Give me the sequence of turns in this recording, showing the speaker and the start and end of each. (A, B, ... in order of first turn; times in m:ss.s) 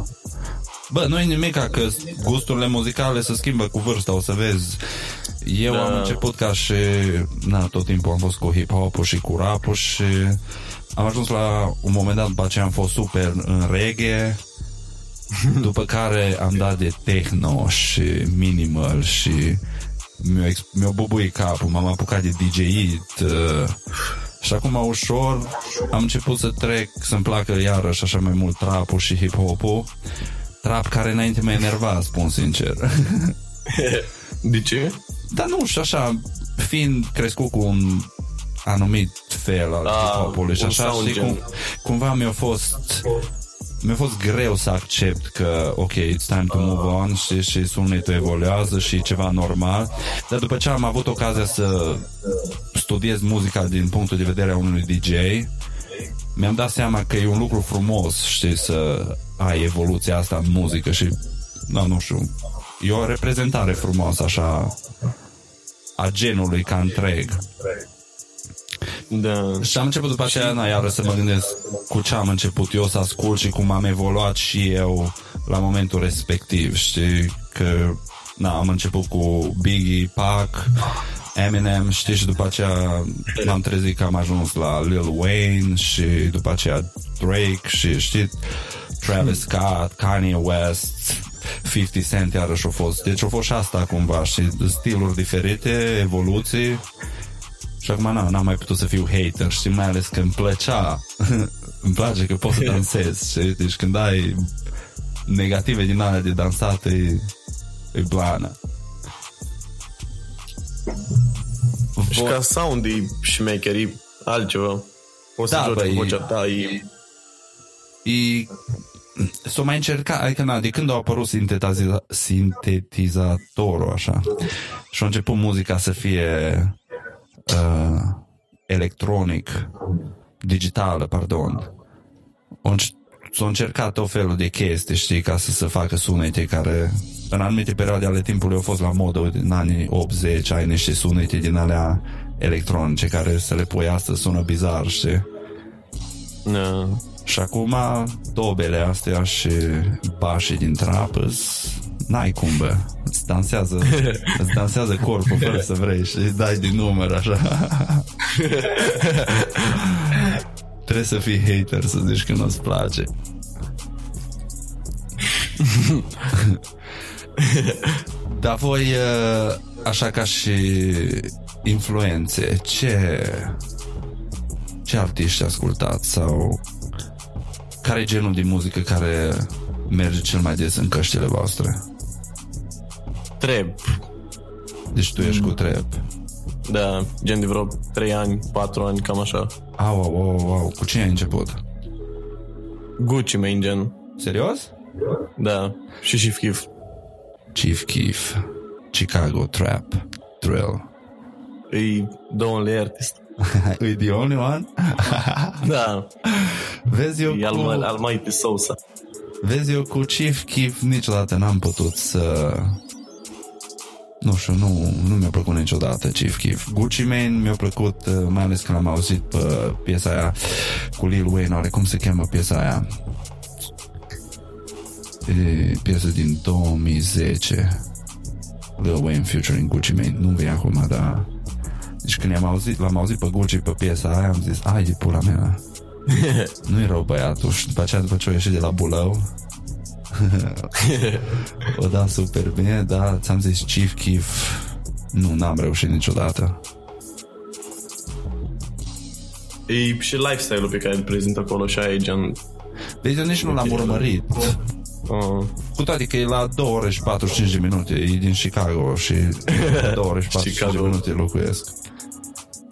0:00.9-0:10.4 A
0:05.7-0:06.2 B
0:11.0-0:14.4 A
0:15.4-0:15.7 B
0:15.6-0:19.6 A
0:20.2-0:23.8 A
0:24.4-0:29.9 A
0:30.6-0:33.4 A
0:33.7-0:35.0 B
0:35.3-0:38.1 A
0:38.6-0:43.2 A
0:39.8-0:41.4 B
0:43.8-0:52.1 A
0:46.5-0:47.0 B
0:52.7-0:55.5 A
0:56.4-1:04.8 A
1:06.0-1:07.5 A
1:09.1-1:09.7 B
1:09.6-1:36.8 A
1:37.8-1:44.5 A
1:45.3-1:47.3 A
1:47.9-1:48.6 A
1:52.0-1:52.4 A
1:52.1-1:56.9 B
1:55.5-1:56.2 A
1:58.0-1:58.5 A
1:59.2-2:06.8 A
2:07.4-2:09.7 A
2:10.4-2:11.7 A
2:12.6-2:25.3 A
2:26.5-2:27.0 B
2:27.3-2:38.1 A
2:33.9-2:34.3 B
2:38.3-2:39.5 B
2:39.5-2:43.1 A
2:45.6-2:46.1 B
2:46.3-2:46.6 A
2:47.4-2:48.0 B
2:48.3-2:53.6 A
2:54.8-2:56.6 A
2:57.8-3:01.8 A
3:03.4-3:04.0 B
3:04.9-3:06.0 A
3:05.2-3:05.6 B
3:06.7-3:09.5 B
3:09.8-3:11.6 A
3:13.0-3:14.0 B
3:14.2-3:14.7 A
3:15.4-3:16.7 B
3:17.5-3:20.9 A
3:21.7-3:23.2 B
3:23.4-3:25.7 A
3:25.6-3:26.1 B
3:26.2-3:27.9 A
3:27.3-3:28.8 B
3:29.4-3:32.8 A
3:34.2-3:42.9 A
3:45.2-3:47.8 A
3:48.8-3:51.3 A
3:52.0-3:55.6 A
3:56.1-3:56.5 B
3:56.6-3:59.3 A
4:00.1-4:00.9 A
4:00.8-4:01.3 B
4:01.6-4:06.6 A
4:09.7-4:12.4 B
4:13.0-4:14.6 A
4:13.4-4:14.1 B
4:15.1-4:15.6 B
4:15.8-4:21.7 A
4:19.5-4:21.0 B